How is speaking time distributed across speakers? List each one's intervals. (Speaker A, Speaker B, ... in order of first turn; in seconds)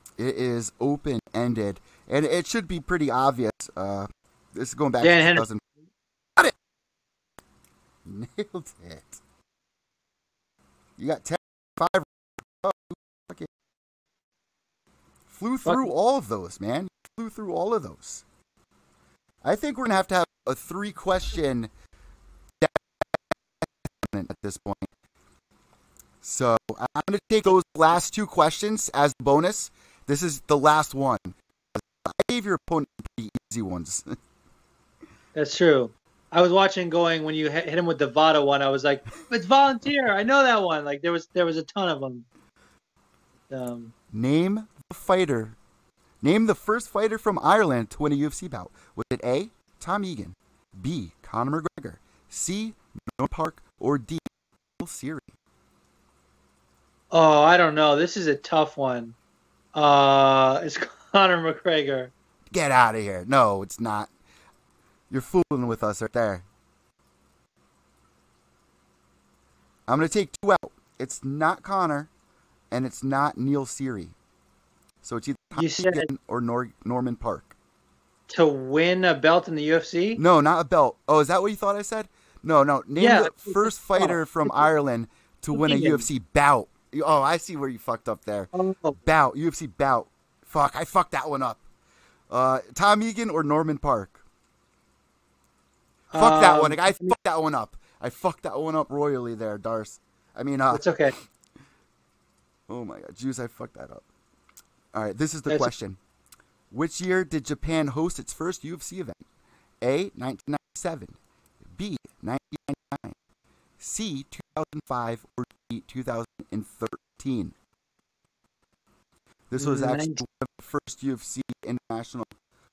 Speaker A: 0.2-5.6, 8.1-9.2, 11.0-13.5, 15.3-18.2, 19.4-21.7, 22.6-23.1, 24.0-24.9, 26.2-34.1, 44.1-45.6, 46.2-55.3, 62.5-64.1, 65.1-66.5, 69.9-72.1, 72.7-74.2, 75.0-77.5, 80.2-91.6, 92.3-94.2, 96.2-100.9, 102.7-104.0, 104.9-106.0, 106.7-109.2, 109.8-111.2, 111.7-113.2, 113.8-117.5, 119.5-122.3
Speaker B: 5.0-5.5, 35.4-42.3, 43.5-43.9, 57.1-59.2, 59.7-62.1, 75.6-76.1, 78.3-80.2, 83.0-84.7, 85.5-86.0, 88.5-89.0, 96.1-97.1, 100.7-101.1, 105.5-105.7, 119.6-120.2